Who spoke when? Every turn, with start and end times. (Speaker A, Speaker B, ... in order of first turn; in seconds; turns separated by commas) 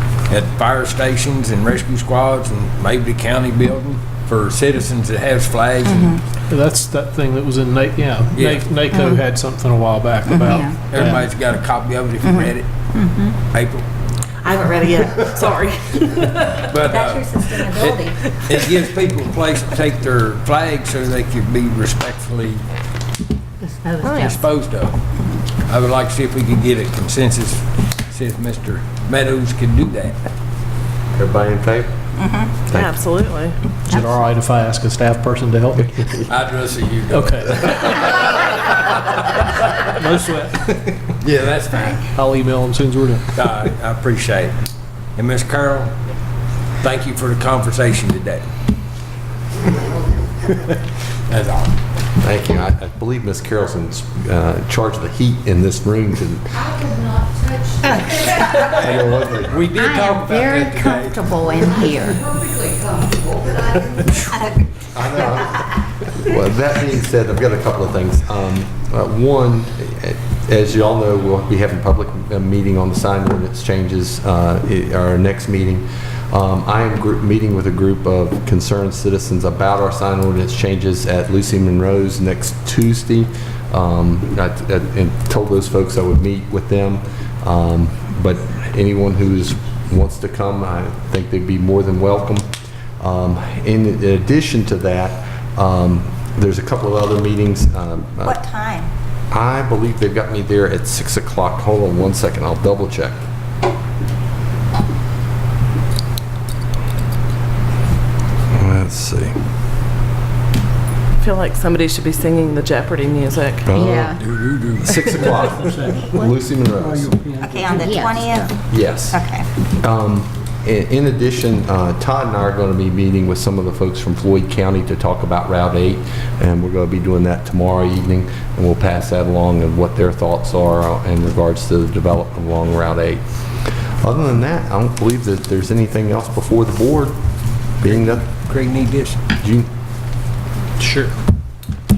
Speaker A: 0.3-6.2, Speaker B: 5.8-6.2, Speaker C: 6.5-11.2, Speaker A: 8.3-8.7, Speaker D: 10.5-10.8, Speaker A: 10.9-12.7, Speaker D: 12.9-13.3, Speaker A: 13.5-13.8, Speaker E: 14.4-16.8, Speaker A: 16.6-22.6, Speaker D: 16.8-18.2, Speaker E: 17.5-18.9, Speaker D: 23.6-24.4, Speaker E: 24.0-24.3, Speaker A: 24.1-24.9, Speaker A: 25.7-30.2, Speaker F: 31.2-31.9, Speaker B: 32.2-32.5, Speaker E: 32.7-33.8, Speaker C: 33.9-36.2, Speaker D: 33.9-34.2, Speaker A: 36.3-39.0, Speaker C: 37.1-37.7, Speaker C: 39.5-40.6, Speaker A: 40.9-42.1, Speaker C: 42.1-43.2, Speaker A: 43.4-44.5, Speaker A: 45.2-45.9, Speaker A: 46.8-48.4, Speaker A: 50.5-50.8, Speaker A: 51.3-51.7, Speaker F: 52.2-56.6, Speaker F: 58.6-59.7, Speaker A: 59.5-61.2, Speaker D: 59.8-62.2, Speaker F: 64.9-98.4, Speaker B: 98.2-98.9, Speaker F: 99.3-103.2, Speaker F: 108.5-109.3, Speaker E: 111.2-113.7, Speaker F: 113.7-114.2, Speaker D: 113.8-114.2, Speaker A: 114.0-115.1, Speaker F: 114.8-117.4, Speaker C: 115.7-116.1, Speaker B: 117.4-119.5, Speaker D: 117.7-118.5, Speaker F: 118.7-119.2, Speaker F: 119.8-133.2, Speaker F: 134.0-137.2, Speaker F: 137.8-138.2, Speaker A: 137.8-139.2, Speaker F: 139.4-139.7